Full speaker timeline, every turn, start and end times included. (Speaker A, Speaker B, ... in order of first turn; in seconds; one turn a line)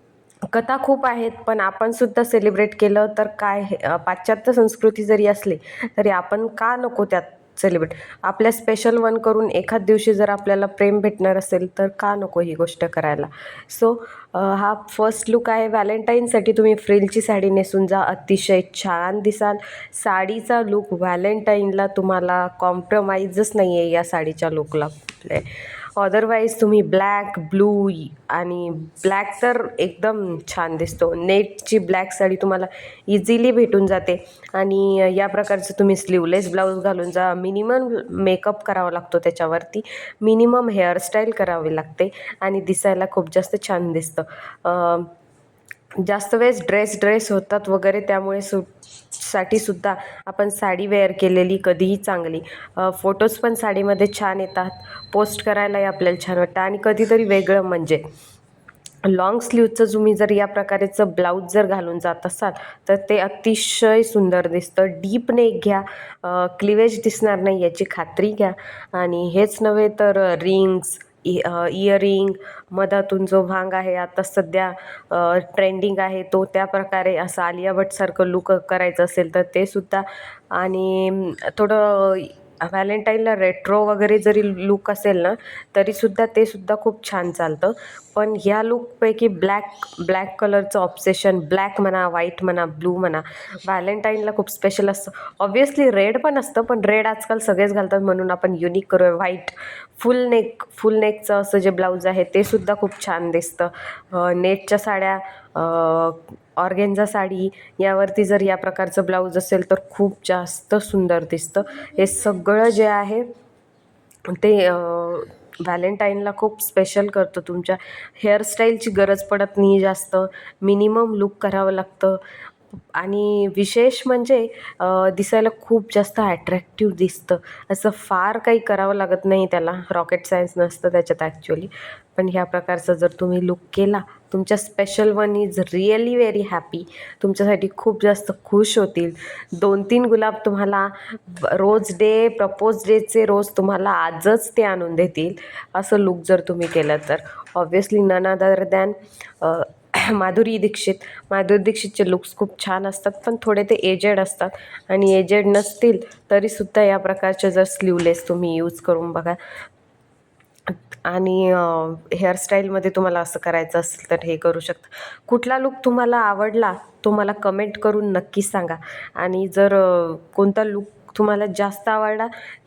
Speaker A: 0.5-45.1
Speaker A: 46.0-58.0
Speaker A: 59.0-113.3
Speaker A: 114.3-122.2
Speaker A: 122.9-159.4
Speaker A: 160.7-172.3